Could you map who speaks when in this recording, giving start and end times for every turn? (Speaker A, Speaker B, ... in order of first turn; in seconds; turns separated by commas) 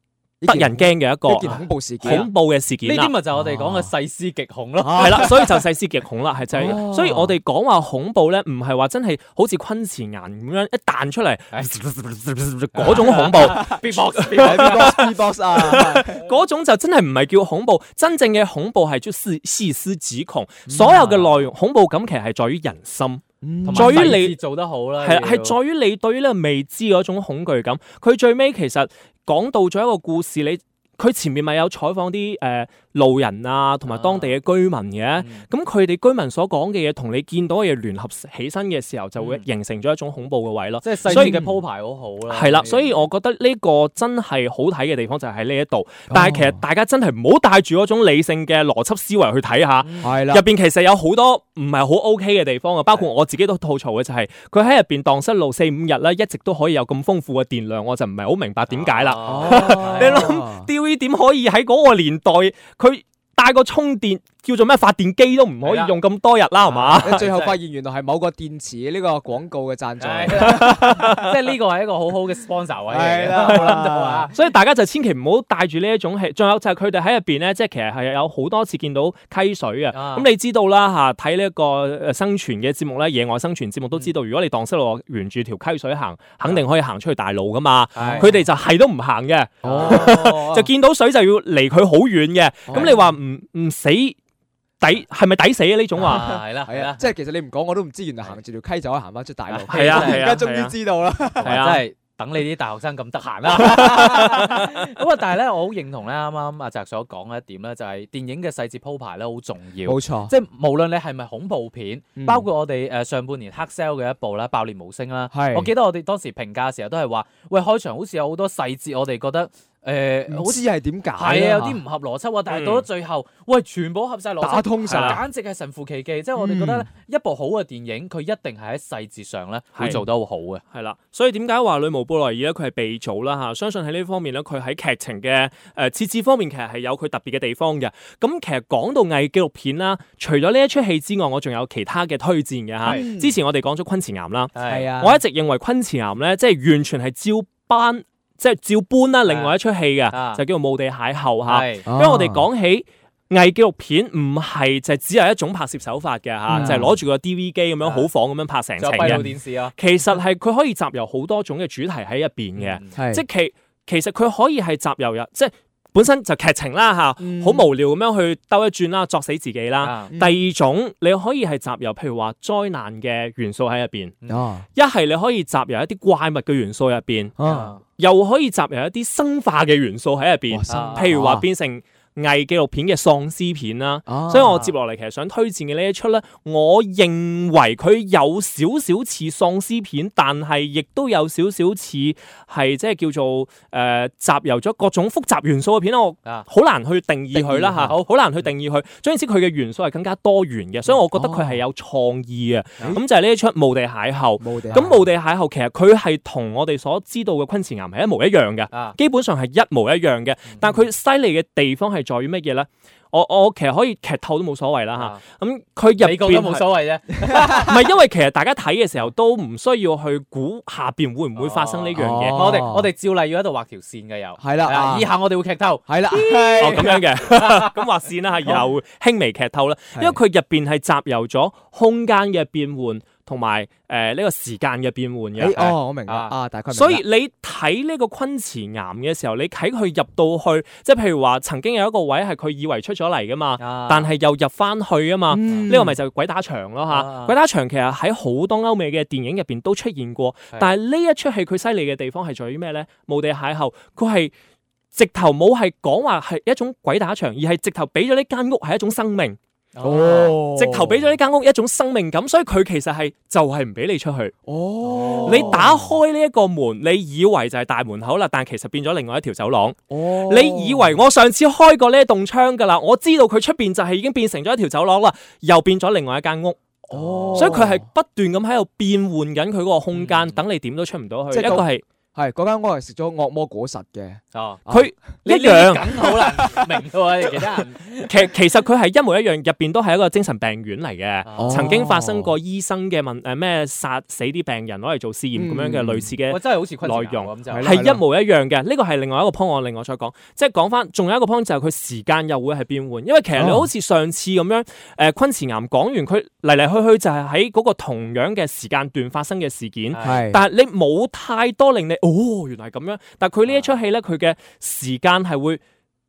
Speaker A: 0.4-2.3, Speaker B: 0.5-3.1, Speaker C: 1.4-2.3, Speaker C: 2.8-5.3, Speaker A: 3.3-3.9, Speaker A: 4.8-5.5, Speaker B: 5.0-24.4, Speaker A: 6.5-7.4, Speaker C: 12.7-15.1, Speaker A: 13.4-13.8, Speaker A: 14.3-16.1, Speaker A: 20.7-21.1, Speaker C: 20.9-21.5, Speaker A: 23.4-24.2, Speaker C: 23.7-25.6, Speaker B: 25.0-41.4, Speaker C: 33.9-34.4, Speaker C: 35.2-35.5, Speaker C: 39.2-39.4, Speaker C: 40.8-42.9, Speaker A: 41.1-41.6, Speaker B: 42.3-67.2, Speaker A: 46.1-46.6, Speaker C: 49.8-50.1, Speaker A: 50.0-50.5, Speaker C: 58.7-60.3, Speaker A: 59.2-60.7, Speaker C: 65.6-66.0, Speaker C: 66.7-67.6, Speaker A: 67.0-71.3, Speaker C: 70.0-74.4, Speaker B: 70.5-71.2, Speaker A: 72.9-74.3, Speaker B: 73.3-73.8, Speaker B: 74.3-94.2, Speaker C: 79.9-80.3, Speaker C: 88.0-88.4, Speaker A: 88.0-88.4, Speaker C: 89.6-90.2, Speaker A: 89.6-90.7, Speaker A: 92.7-93.0, Speaker C: 92.7-93.0, Speaker B: 94.8-96.4, Speaker C: 96.0-97.1, Speaker A: 96.0-101.7, Speaker C: 99.5-100.3, Speaker B: 99.7-100.8, Speaker C: 101.4-120.6, Speaker B: 101.4-101.8, Speaker B: 103.6-104.5, Speaker A: 109.8-110.3, Speaker A: 112.2-112.5, Speaker A: 115.3-115.7, Speaker A: 120.3-121.8, Speaker C: 121.2-130.6, Speaker B: 122.5-122.9, Speaker A: 124.4-125.2, Speaker B: 124.9-125.2, Speaker A: 126.4-126.9, Speaker B: 129.8-130.0, Speaker B: 130.7-174.2, Speaker A: 142.8-143.4, Speaker C: 144.5-144.9, Speaker A: 144.7-145.2, Speaker C: 149.3-149.6, Speaker C: 150.1-150.4, Speaker C: 151.4-151.9, Speaker A: 151.9-152.5, Speaker A: 156.5-157.0, Speaker C: 156.6-156.8, Speaker C: 157.8-158.1, Speaker C: 158.8-159.7, Speaker A: 159.0-159.3, Speaker C: 162.6-163.0, Speaker A: 162.9-163.2, Speaker A: 167.2-167.7, Speaker C: 169.8-170.1, Speaker A: 174.3-174.7, Speaker B: 174.7-216.8, Speaker A: 177.4-177.7, Speaker C: 177.4-177.8, Speaker A: 180.5-181.5, Speaker C: 180.7-181.2, Speaker A: 184.1-184.7, Speaker C: 184.4-184.7, Speaker A: 197.3-197.9, Speaker C: 197.8-198.4, Speaker A: 201.1-201.6, Speaker A: 204.4-205.1, Speaker C: 208.7-209.0, Speaker C: 210.5-210.8, Speaker C: 214.9-215.2, Speaker C: 216.0-217.7, Speaker B: 217.4-222.5, Speaker C: 221.4-225.9, Speaker A: 221.9-222.9, Speaker A: 224.4-225.1, Speaker A: 225.9-227.0, Speaker B: 226.1-235.8, Speaker C: 226.4-227.7, Speaker A: 235.4-237.0, Speaker C: 236.0-236.3, Speaker B: 236.7-254.3, Speaker C: 243.6-244.1, Speaker A: 245.3-246.0, Speaker C: 245.5-245.8, Speaker C: 246.9-247.4, Speaker B: 254.9-259.4, Speaker C: 259.8-260.4, Speaker A: 259.8-261.1, Speaker B: 260.5-264.3, Speaker A: 264.5-265.9, Speaker C: 264.8-265.6, Speaker B: 265.3-281.8, Speaker A: 269.9-271.0, Speaker A: 276.9-277.9, Speaker C: 276.9-277.6, Speaker C: 279.9-280.4, Speaker A: 281.3-284.9, Speaker C: 284.3-284.6, Speaker B: 284.7-286.1, Speaker C: 285.3-288.3, Speaker A: 286.0-286.7, Speaker B: 288.1-315.6, Speaker C: 291.2-291.8, Speaker A: 291.4-292.3, Speaker A: 295.3-296.1, Speaker C: 296.3-297.8, Speaker A: 297.5-298.0, Speaker A: 303.4-303.7, Speaker C: 309.9-310.2, Speaker A: 310.0-310.4, Speaker C: 313.4-313.7